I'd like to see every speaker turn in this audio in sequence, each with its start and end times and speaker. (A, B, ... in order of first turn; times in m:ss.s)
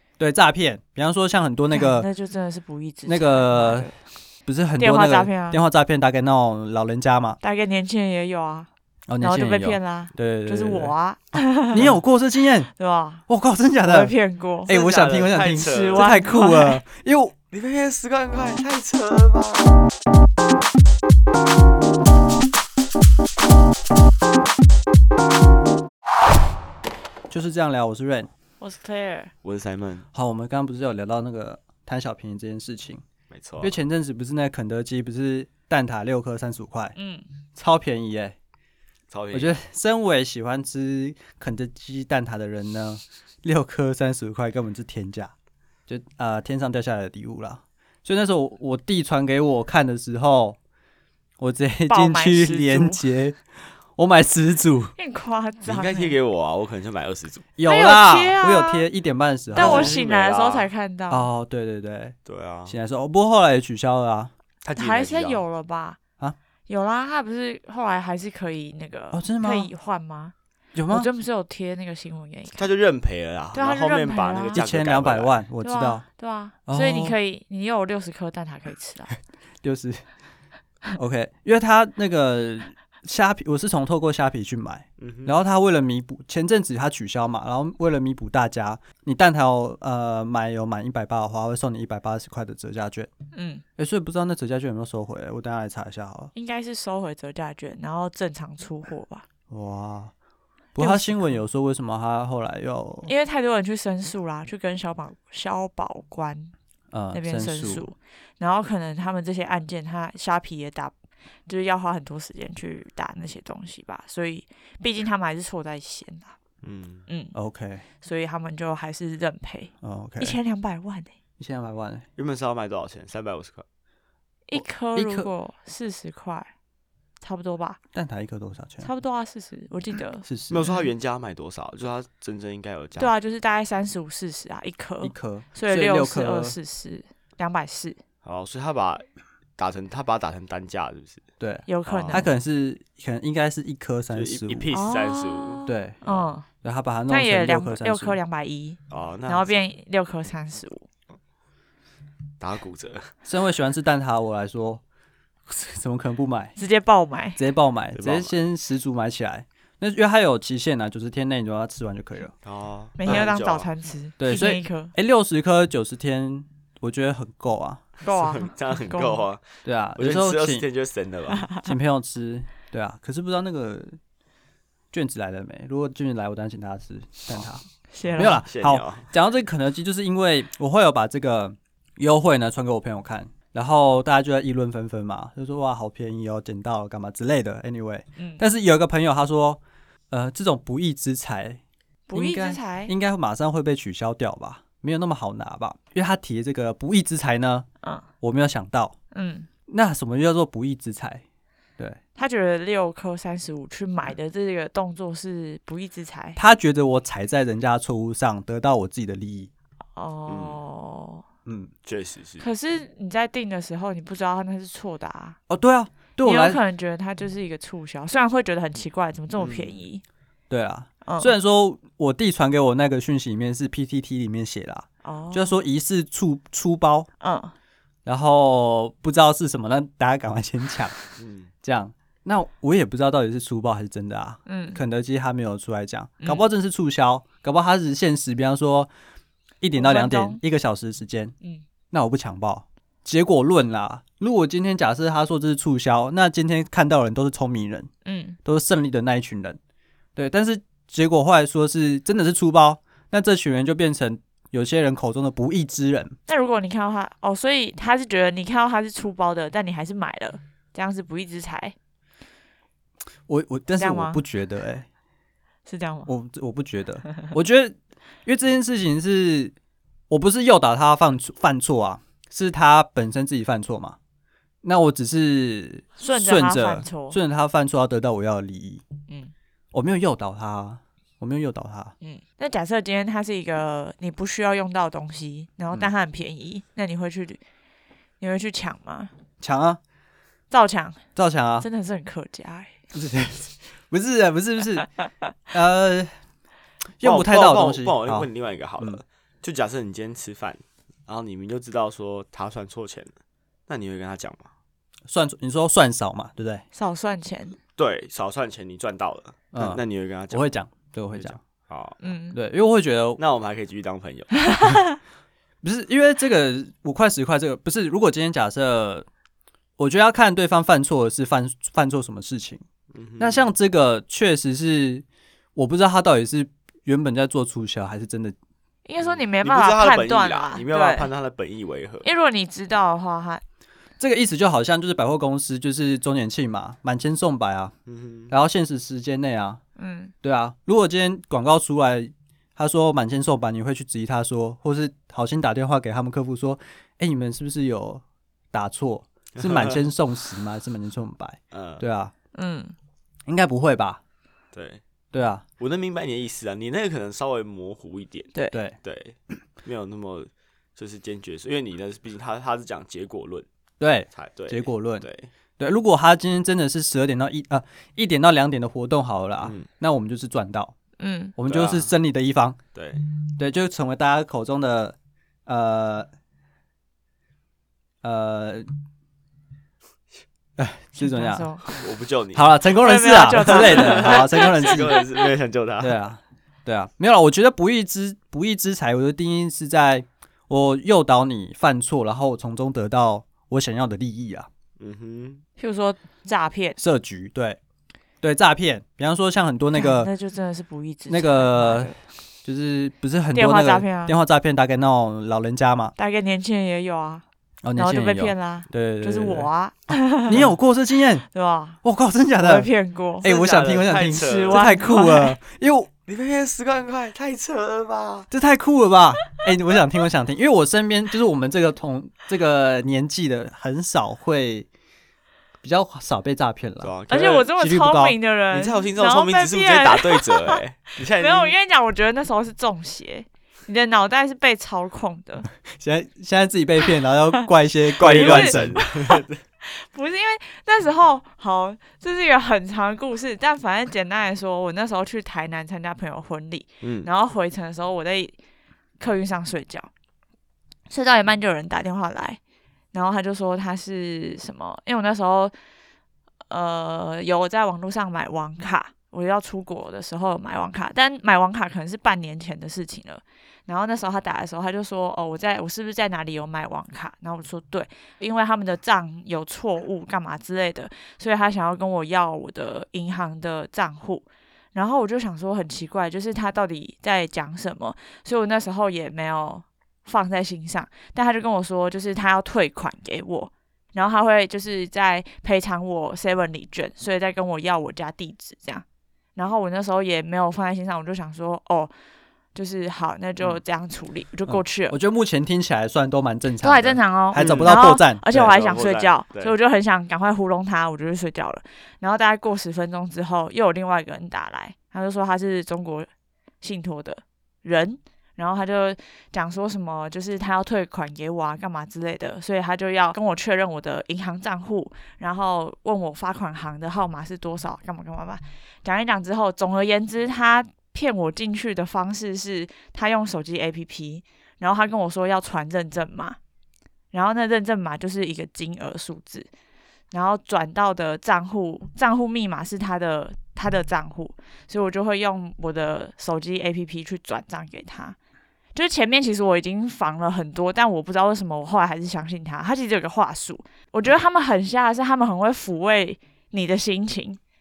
0:00.2-0:02.1 A
0:01.7-0:03.9 B
0:03.0-0:03.9 A
0:04.4-0:07.4 A
0:04.8-0:05.6 B
0:07.4-0:08.7 B
0:09.1-0:10.9 A
0:09.2-0:11.9 B
0:11.7-0:12.7 A
0:12.8-0:13.2 B
0:13.3-0:14.1 A
0:13.8-0:14.7 B
0:14.6-0:17.3 A
0:14.7-0:16.1 C
0:15.5-0:16.8 B
0:17.5-0:19.8 C
0:27.3-0:28.3 A
0:28.6-0:29.3 B
0:29.4-0:30.0 C
0:30.1-0:33.0 A
0:33.3-0:33.8 C
0:33.6-0:36.9 A
0:37.0-0:37.2 B
0:37.6-0:38.4 A
0:39.1-0:39.6 C
0:39.3-0:45.3 A
0:45.9-0:50.6 A
0:51.4-0:53.4 A
0:51.9-0:53.0 B
0:54.0-0:54.9 A
0:55.0-0:56.2 B
0:55.6-0:57.5 C
0:57.6-1:00.0 A
0:57.6-0:58.8 B
0:59.5-1:00.7 C
0:59.5-1:01.3 B
1:01.1-1:02.2 A
1:02.2-1:02.7 C
1:02.7-1:04.3 A
1:04.6-1:05.4 C
1:04.8-1:06.0 B
1:06.7-1:10.3 B
1:09.1-1:09.7 A
1:10.7-1:11.1 A
1:10.9-1:12.7 B
1:12.5-1:15.3 C
1:13.5-1:14.6 B
1:14.6-1:16.0 A
1:15.6-1:19.1 B
1:16.7-1:17.2 A
1:19.6-1:20.0 A
1:20.9-1:33.1 A
1:25.0-1:25.3 C
1:33.3-1:33.6 B
1:33.8-1:36.3 A
1:36.3-1:39.2 B
1:39.5-1:40.1 A
1:40.7-1:43.1 A
1:40.8-1:41.4 B
1:43.0-1:46.5 B
1:46.9-1:47.9 A
1:47.1-1:50.9 B
1:51.5-1:56.4 B
1:56.6-1:57.0 C
1:57.1-1:57.3 B
1:57.3-1:57.8 A
1:58.0-2:01.1 B
1:59.8-2:00.4 A
2:01.4-2:02.0 A
2:02.2-2:03.6 C
2:04.5-2:06.5 B
2:04.5-2:05.3 A
2:07.2-2:07.8 B
2:07.9-2:08.9 A
2:08.8-2:10.9 B
2:10.2-2:10.6 A
2:10.5-2:13.1 C
2:13.0-2:18.0 B
2:15.0-2:16.6 A
2:18.2-2:19.0 C
2:19.6-2:21.2 C
2:21.4-2:24.7 A
2:21.7-2:22.3 B
2:21.9-2:22.2 C
2:24.1-2:26.3 C
2:24.7-2:26.5 B
2:25.7-2:26.0 A
2:26.6-2:28.2 A
2:27.1-2:30.8 B
2:28.9-2:29.5 C
2:32.4-2:33.1 C
2:33.2-2:34.8 A
2:35.5-2:36.5 A
2:36.6-2:37.4 B
2:37.4-2:42.3 A
2:37.9-2:38.3 C
2:42.4-2:43.7 C
2:43.0-2:44.9 B
2:44.2-2:47.8 A
2:48.0-2:49.2 B
2:48.2-2:49.4 C
2:49.6-2:50.6 A
2:50.0-2:51.5 C
2:51.6-2:54.0 A
2:54.9-2:57.6 A
2:57.9-2:58.4 B
2:58.1-3:11.6 A
2:58.2-2:59.1 C
3:08.2-3:08.4 B
3:12.1-3:12.9 B
3:12.1-3:17.7 A
3:18.2-3:18.9 A
3:19.1-3:19.5 B
3:19.7-3:21.2 A
3:22.2-3:26.4 B
3:26.4-3:29.5 A
3:30.0-3:31.2 B
3:30.3-3:30.6 C
3:31.4-3:31.7 A
3:31.8-3:32.4 C
3:32.4-3:35.4 B
3:35.5-3:36.6 A
3:36.2-3:40.0 B
3:39.4-3:39.7 C
3:40.5-3:47.1 A
3:41.0-3:41.3 B
3:45.0-3:45.6 B
3:47.2-3:47.5 B
3:48.0-3:50.9 A
3:51.2-3:51.5 C
3:51.6-3:58.9 A
3:54.4-3:54.8 B
3:59.6-4:01.3 A
3:59.8-4:00.4 B
4:01.9-4:07.9 A
4:08.0-4:08.4 B
4:08.4-4:09.6 A
4:10.2-4:16.2 A
4:16.3-4:21.7 B
4:23.3-4:24.9 A
4:23.8-4:24.2 B
4:25.7-4:26.1 B
4:26.1-4:29.5 A
4:30.1-4:34.0 A
4:34.6-4:38.8 A
4:36.0-4:37.2 B
4:39.1-4:39.3 B
4:39.7-4:41.9 A
4:42.0-4:47.4 B
4:48.2-4:49.1 B
4:49.4-4:49.8 A
4:50.5-4:51.0 B
4:51.2-4:51.7 A
4:51.6-4:52.8 B
4:52.9-4:54.9 A
4:55.5-4:56.1 A
4:57.0-4:58.3 A
4:57.0-5:03.1 C
5:03.7-5:04.5 C
5:05.1-5:06.6 A
5:06.7-5:07.6 B
5:07.8-5:10.5 C
5:09.5-5:11.4 A
5:11.1-5:12.1 C
5:12.0-5:12.4 B
5:12.3-5:13.2 A
5:13.2-5:14.4 C
5:14.4-5:15.0 B
5:15.6-5:19.1 A
5:19.8-5:22.6 A
5:22.9-5:23.4 C
5:23.2-5:25.0 A
5:25.6-5:28.4 A
5:28.8-5:31.1 B
5:29.0-5:32.1 C
5:32.0-5:33.4 B
5:34.0-5:37.7 A
5:37.8-5:38.3 C
5:38.3-5:39.6 A
5:39.8-5:40.1 B
5:40.2-5:52.1 A
5:49.4-5:49.8 C
5:51.5-5:51.8 C
5:52.3-5:52.7 B
5:53.2-5:54.0 A
5:54.5-5:54.8 C
5:55.1-5:55.4 A
5:55.6-5:58.3 C
5:58.8-6:03.4 C
6:03.8-6:05.1 A
6:04.1-6:05.3 C
6:05.6-6:10.7 A
6:09.4-6:09.7 C
6:11.0-6:11.3 B
6:11.4-6:12.6 A
6:11.5-6:11.9 C
6:12.7-6:13.0 C
6:13.4-6:16.1 A
6:18.0-6:18.6 A
6:20.6-6:21.5 A
6:21.0-6:21.8 B
6:21.7-6:22.6 C
6:22.3-6:25.0 A
6:22.7-6:25.2 B
6:23.5-6:26.0 C
6:25.8-6:34.5 A
6:34.8-6:35.4 C
6:35.6-6:36.8 B
6:36.8-6:37.6 A
6:38.2-6:40.1 A
6:39.7-6:42.0 B
6:41.1-6:41.9 A
6:42.4-6:45.9 A
6:43.3-6:44.2 B
6:46.0-6:47.2 B
6:47.6-6:49.5 A
6:47.8-6:50.4 B
6:50.2-6:51.2 A
6:51.3-6:51.8 B
6:51.8-6:52.7 A
6:52.4-6:53.3 B
6:53.2-6:55.9 A
6:53.2-6:54.7 C
6:53.9-6:55.4 B
6:56.1-6:58.3 C
6:58.3-7:04.7 A
7:05.6-7:06.9 A
7:06.8-7:07.5 C
7:07.1-7:10.6 B
7:07.6-7:08.2 A
7:08.5-7:11.5 C
7:11.1-7:15.5 B
7:15.6-7:18.8 A
7:18.0-7:19.4 C
7:18.0-7:28.4 B
7:26.8-7:27.1 C
7:29.0-7:29.9 B
7:30.9-7:32.4 B
7:32.9-7:35.5 B
7:36.5-8:11.9 B
8:12.5-8:15.0 B
8:14.5-8:18.3 A
8:16.6-8:26.1 B
8:17.4-8:17.8 C
8:18.3-8:19.5 C
8:26.6-8:46.4 B
8:47.1-8:49.5 B
8:50.1-8:58.2 B
8:58.7-9:07.4 B